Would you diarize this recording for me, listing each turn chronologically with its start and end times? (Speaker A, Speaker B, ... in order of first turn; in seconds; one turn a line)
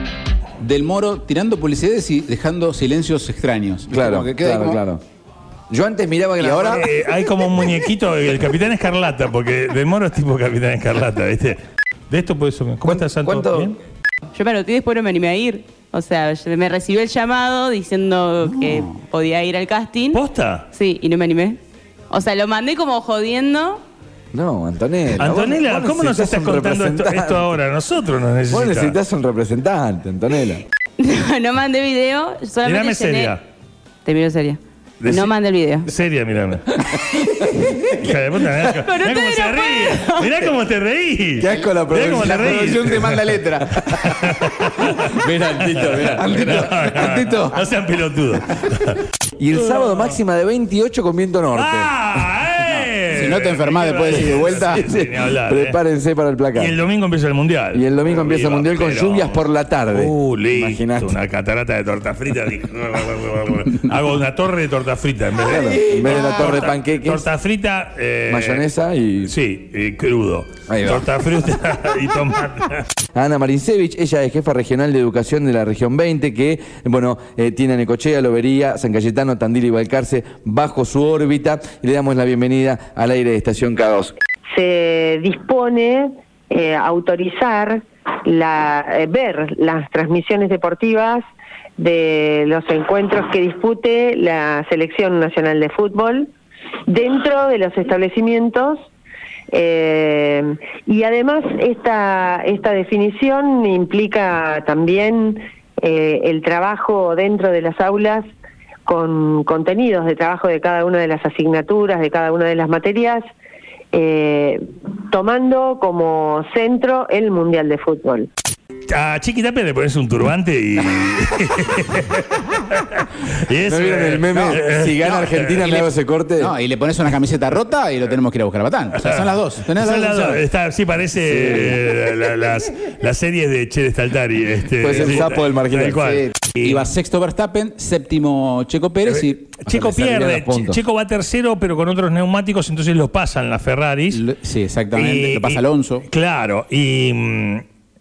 Speaker A: 0.6-4.8
Speaker B: 3.9-5.0
Speaker B: 5.7-6.9
Speaker A: 6.4-6.8
Speaker C: 6.7-11.6
Speaker C: 12.1-13.8
Speaker B: 12.8-13.7
Speaker D: 14.3-23.8
Speaker A: 18.5-18.9
Speaker C: 20.1-20.7
Speaker B: 24.3-27.5
Speaker C: 25.2-29.0
Speaker B: 28.5-30.6
Speaker D: 31.0-33.4
Speaker C: 32.6-33.4
Speaker D: 34.0-35.9
Speaker C: 35.0-35.3
Speaker C: 35.8-36.8
Speaker D: 37.5-37.9
Speaker C: 37.9-43.2
Speaker D: 38.8-40.5
Speaker B: 41.4-43.0
Speaker A: 41.5-44.1
Speaker C: 44.1-45.1
Speaker B: 45.1-46.9
Speaker C: 45.8-49.0
Speaker A: 46.0-47.6
Speaker B: 49.4-51.9
Speaker C: 49.5-50.1
Speaker C: 51.5-55.8
Speaker A: 53.1-54.9
Speaker B: 54.7-56.7
Speaker C: 56.5-68.6
Speaker B: 57.7-61.2
Speaker B: 65.4-67.2
Speaker B: 68.3-69.3
Speaker C: 69.3-72.9
Speaker B: 70.7-71.1
Speaker B: 73.1-84.1
Speaker E: 84.5-91.2
Speaker E: 91.8-96.3
Speaker E: 96.9-98.8
Speaker E: 99.5-108.2
Speaker E: 108.8-113.2
Speaker E: 113.9-118.3
Speaker C: 118.9-125.6
Speaker B: 123.6-126.5
Speaker A: 125.6-130.4
Speaker C: 129.0-136.9
Speaker B: 131.2-131.8
Speaker B: 134.8-136.1
Speaker A: 136.1-139.5
Speaker C: 139.1-144.2
Speaker B: 139.7-140.8
Speaker A: 144.1-146.0
Speaker C: 144.9-147.6